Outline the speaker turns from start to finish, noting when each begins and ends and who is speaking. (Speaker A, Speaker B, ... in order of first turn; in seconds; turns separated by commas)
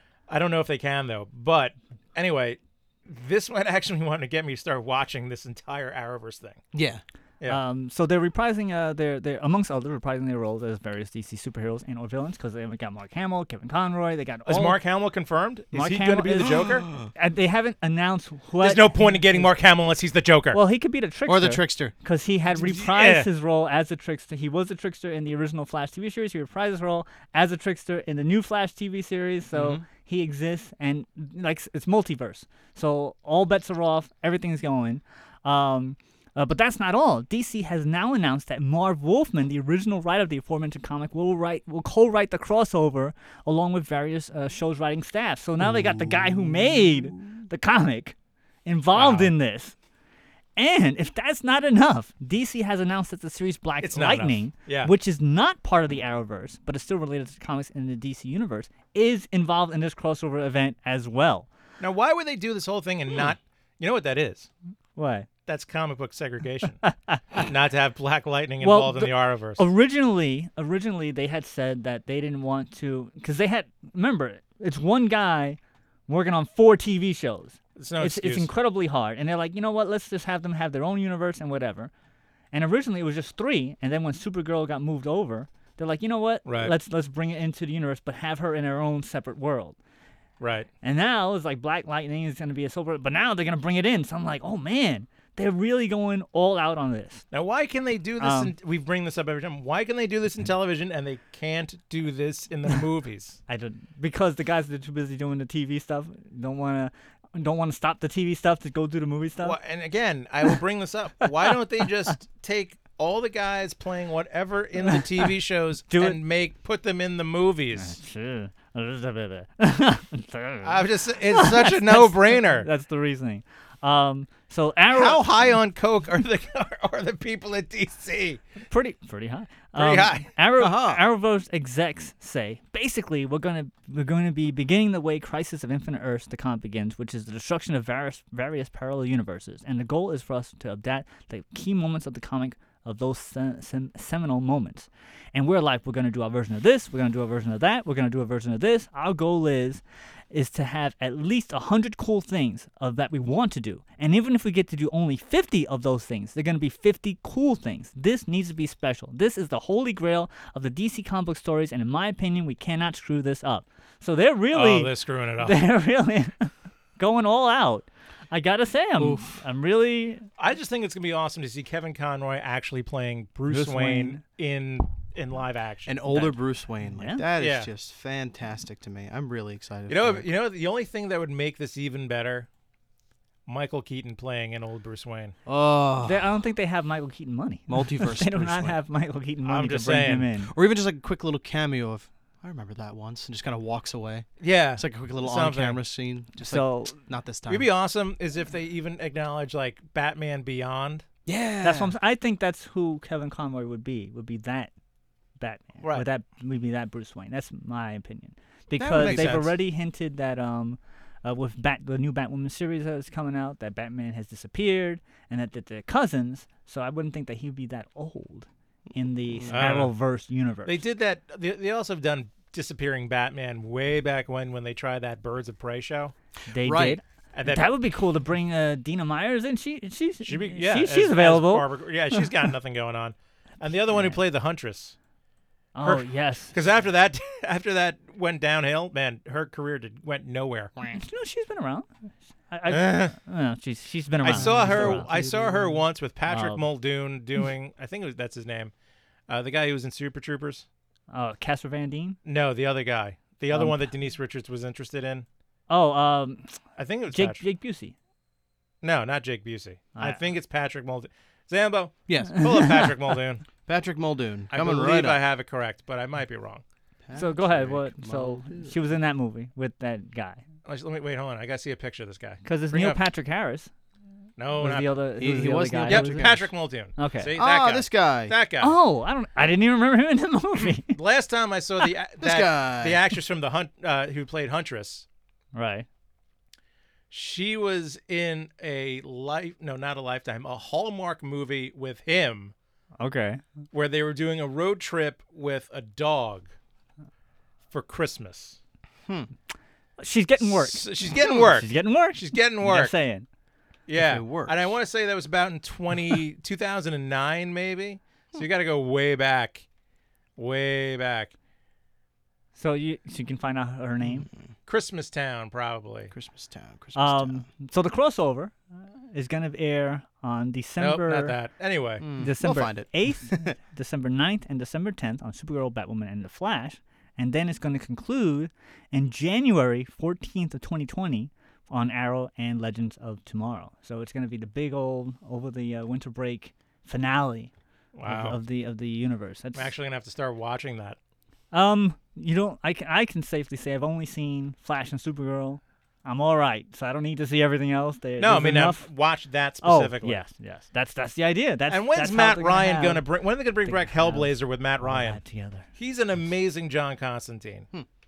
Speaker A: 0.3-6.6, Speaker B: 6.7-7.0, Speaker C: 7.5-14.8, Speaker A: 14.4-16.9, Speaker C: 15.7-19.5, Speaker B: 16.6-17.1, Speaker A: 18.6-20.6, Speaker C: 20.5-48.1, Speaker B: 21.2-21.9, Speaker A: 22.5-23.3, Speaker B: 29.5-29.8, Speaker B: 45.7-46.5, Speaker C: 48.6-49.8, Speaker A: 48.9-49.3, Speaker C: 50.5-61.5, Speaker A: 53.8-54.9, Speaker A: 61.8-64.5, Speaker C: 65.0-65.3, Speaker A: 65.5-66.8, Speaker C: 66.8-67.4, Speaker A: 67.4-69.6, Speaker C: 68.6-81.9, Speaker A: 77.8-78.5, Speaker C: 82.5-89.8, Speaker A: 86.5-86.7, Speaker A: 90.4-90.7, Speaker C: 90.8-97.2, Speaker A: 97.3-103.4, Speaker C: 98.2-98.5, Speaker C: 103.5-109.6, Speaker A: 109.4-118.0, Speaker C: 115.9-116.2, Speaker C: 117.8-125.5, Speaker A: 120.6-122.7, Speaker A: 124.9-128.4, Speaker C: 128.7-170.2, Speaker A: 129.8-130.3, Speaker B: 130.6-131.0, Speaker A: 164.5-165.6, Speaker B: 169.0-169.4, Speaker A: 170.4-176.3, Speaker C: 173.5-174.2, Speaker B: 175.8-180.2, Speaker C: 176.9-177.2, Speaker A: 177.4-177.7, Speaker A: 179.9-182.5, Speaker A: 183.5-185.3, Speaker B: 185.4-186.3, Speaker C: 186.0-190.5, Speaker B: 187.7-188.8, Speaker A: 189.4-190.3, Speaker B: 190.5-197.7, Speaker A: 194.4-195.8, Speaker C: 196.4-197.0, Speaker A: 197.5-201.1, Speaker B: 201.2-201.9, Speaker C: 201.6-204.7, Speaker C: 205.4-220.8, Speaker A: 205.8-206.1, Speaker B: 208.8-209.5, Speaker A: 208.9-209.4, Speaker B: 219.3-219.7, Speaker A: 219.5-219.9, Speaker A: 220.7-226.1, Speaker C: 226.5-232.2, Speaker B: 226.6-227.0, Speaker A: 227.3-227.7, Speaker A: 230.2-234.9, Speaker C: 233.9-234.2, Speaker C: 235.8-236.5, Speaker A: 235.8-240.8, Speaker C: 240.8-241.9, Speaker C: 242.5-246.7, Speaker A: 242.7-243.2, Speaker A: 244.2-248.7, Speaker B: 244.3-245.2, Speaker A: 249.3-250.7, Speaker C: 251.1-252.2, Speaker A: 252.2-255.2, Speaker C: 253.5-253.9, Speaker C: 255.7-256.6, Speaker A: 256.8-257.4, Speaker C: 257.1-257.9, Speaker A: 258.8-263.4, Speaker C: 259.9-260.2, Speaker B: 262.1-262.8, Speaker C: 262.3-262.9, Speaker B: 263.6-265.2, Speaker A: 264.5-266.6, Speaker B: 267.0-268.8, Speaker C: 267.1-270.4, Speaker A: 270.6-273.0, Speaker C: 272.4-273.7, Speaker A: 274.4-275.0, Speaker C: 274.6-276.3, Speaker B: 275.2-276.5, Speaker A: 275.9-278.8, Speaker C: 277.0-277.3, Speaker B: 277.4-278.3, Speaker C: 278.6-280.9, Speaker A: 280.9-285.0, Speaker B: 282.2-283.0, Speaker C: 285.5-285.9, Speaker A: 287.1-292.5, Speaker C: 293.0-293.4, Speaker A: 293.7-296.5, Speaker A: 297.7-298.6, Speaker B: 299.1-299.3, Speaker C: 300.0-303.2, Speaker A: 300.4-302.9, Speaker B: 301.2-301.4, Speaker A: 303.9-309.6, Speaker B: 303.9-304.7, Speaker A: 310.4-311.3, Speaker C: 312.6-314.3, Speaker B: 314.0-314.4, Speaker A: 314.7-316.1, Speaker B: 316.1-317.5, Speaker C: 317.0-318.6, Speaker C: 319.1-321.4, Speaker A: 320.8-322.1, Speaker B: 322.0-323.6, Speaker C: 322.2-337.5, Speaker A: 337.9-338.4, Speaker C: 338.0-339.7, Speaker A: 339.5-341.0, Speaker C: 341.5-348.9, Speaker A: 348.2-350.2, Speaker C: 349.6-353.1, Speaker A: 351.7-355.2, Speaker C: 353.6-355.7, Speaker A: 355.8-357.7